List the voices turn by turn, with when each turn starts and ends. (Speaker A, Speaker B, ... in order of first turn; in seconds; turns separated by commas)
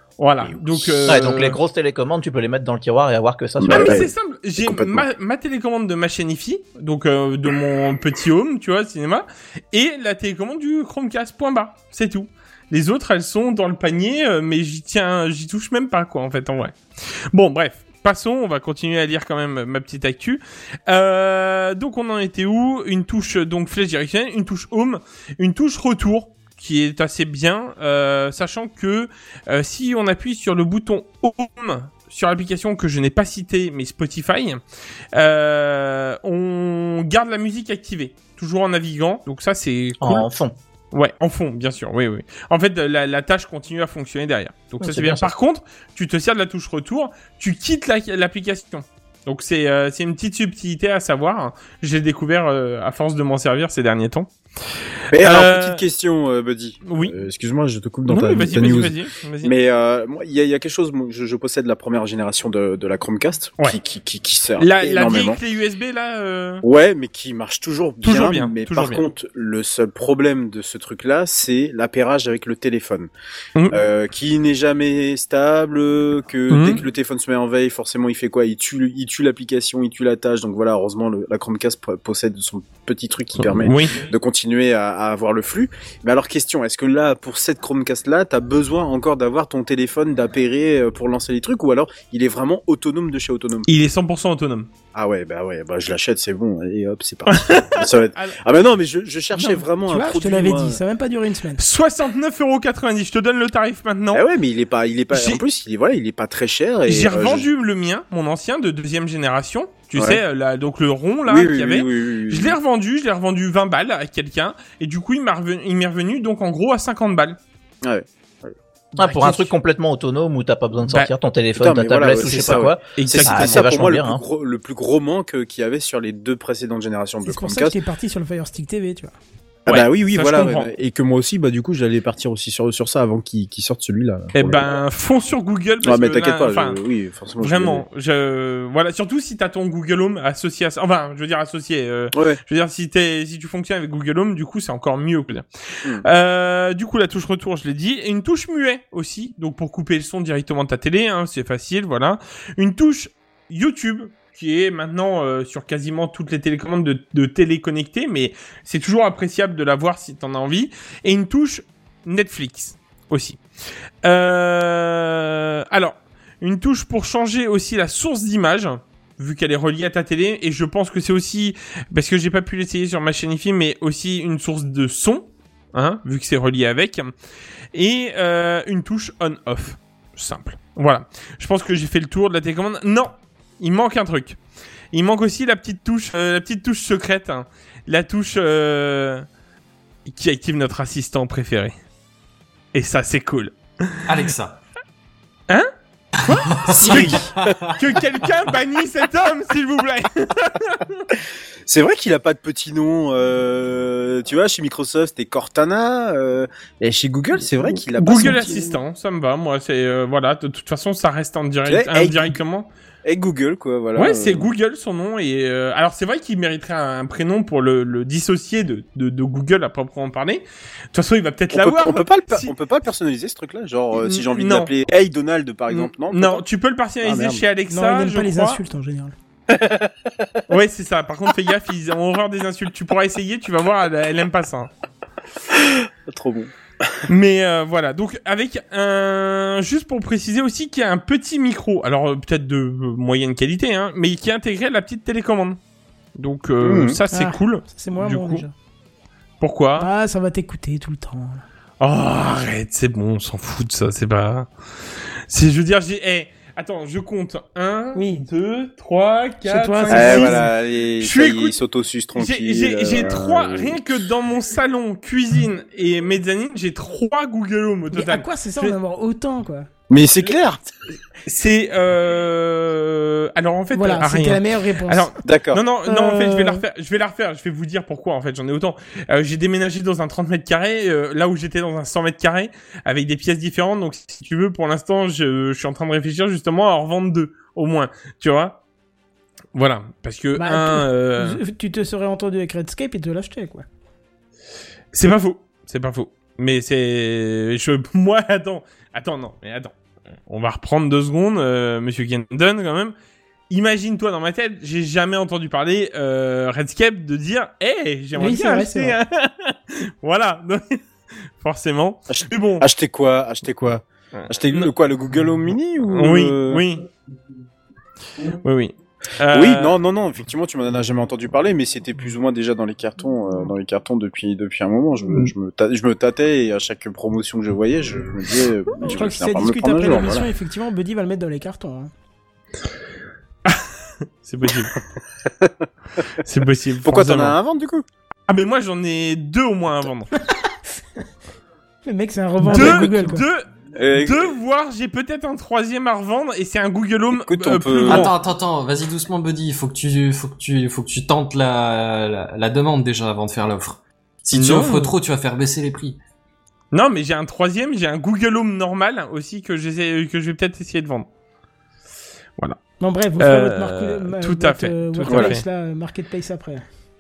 Speaker A: 0.2-1.6, Speaker B: 0.4-1.2, Speaker C: 1.1-4.1, Speaker B: 3.6-4.1, Speaker A: 3.7-16.8, Speaker B: 4.6-5.1, Speaker A: 17.3-34.6, Speaker A: 35.1-40.3, Speaker C: 40.0-40.5, Speaker A: 40.9-54.3, Speaker C: 44.8-45.3, Speaker B: 55.1-65.4, Speaker A: 55.1-55.8, Speaker A: 56.9-57.1, Speaker A: 58.1-59.5, Speaker A: 64.6-66.6, Speaker B: 66.6-73.1, Speaker A: 68.0-69.0, Speaker A: 73.5-73.8, Speaker B: 73.7-93.7, Speaker A: 76.5-76.8, Speaker A: 83.4-84.0, Speaker A: 93.7-94.7, Speaker B: 94.9-100.8, Speaker A: 97.3-98.4, Speaker A: 99.3-99.6, Speaker D: 99.8-101.6, Speaker A: 101.6-104.2, Speaker B: 104.1-107.5, Speaker A: 105.1-105.4, Speaker A: 106.9-117.4, Speaker B: 111.3-112.5, Speaker B: 117.8-118.5, Speaker C: 119.0-124.2, Speaker D: 119.0-119.5, Speaker B: 121.5-127.7, Speaker A: 122.2-123.7, Speaker D: 127.2-129.2, Speaker A: 129.7-130.7, Speaker B: 129.7-134.7, Speaker A: 134.3-136.8, Speaker B: 135.8-137.8, Speaker A: 137.4-145.4, Speaker A: 146.0-163.4, Speaker A: 164.0-177.1, Speaker A: 177.7-184.4, Speaker A: 184.9-189.2, Speaker A: 190.1-191.7, Speaker A: 192.7-194.0, Speaker E: 194.1-194.6, Speaker A: 196.2-201.1, Speaker E: 196.5-197.7, Speaker B: 196.7-197.6, Speaker B: 201.7-208.7, Speaker A: 207.9-212.7, Speaker B: 211.7-212.3, Speaker B: 213.0-214.5, Speaker A: 213.9-222.5, Speaker B: 221.5-226.4, Speaker A: 223.9-224.7, Speaker A: 225.7-228.6, Speaker B: 227.0-227.4, Speaker D: 227.7-229.1, Speaker B: 229.5-230.4, Speaker A: 230.5-234.7, Speaker B: 235.5-237.0, Speaker A: 237.1-245.6, Speaker A: 246.2-248.4, Speaker B: 246.6-247.0, Speaker D: 247.1-248.5, Speaker A: 249.4-249.9, Speaker D: 249.8-251.4, Speaker A: 251.8-254.5, Speaker A: 255.3-261.6, Speaker D: 257.9-258.2, Speaker D: 259.4-260.4, Speaker B: 259.9-263.8, Speaker A: 262.1-268.8, Speaker D: 267.9-269.7, Speaker B: 269.9-270.6, Speaker A: 271.2-288.6, Speaker D: 273.7-275.1, Speaker B: 275.2-275.6, Speaker D: 275.9-276.6, Speaker A: 289.5-291.4, Speaker D: 290.4-293.6, Speaker A: 294.9-299.7, Speaker A: 300.3-302.9, Speaker A: 303.5-310.8, Speaker D: 308.1-309.0, Speaker A: 311.4-312.6, Speaker B: 312.1-316.6, Speaker A: 314.1-314.7, Speaker A: 315.9-316.9, Speaker A: 318.4-319.7, Speaker B: 319.3-330.3, Speaker D: 328.8-331.9, Speaker A: 334.2-334.8, Speaker B: 335.4-335.6, Speaker A: 336.2-337.4, Speaker B: 336.8-337.8, Speaker A: 338.3-340.1, Speaker D: 341.9-343.2, Speaker B: 342.5-343.1, Speaker A: 342.5-348.1, Speaker B: 343.7-344.3, Speaker B: 347.1-348.1, Speaker E: 347.9-356.0, Speaker A: 354.3-354.9, Speaker A: 356.7-361.1, Speaker D: 362.8-366.6, Speaker A: 363.2-365.4, Speaker B: 365.1-365.3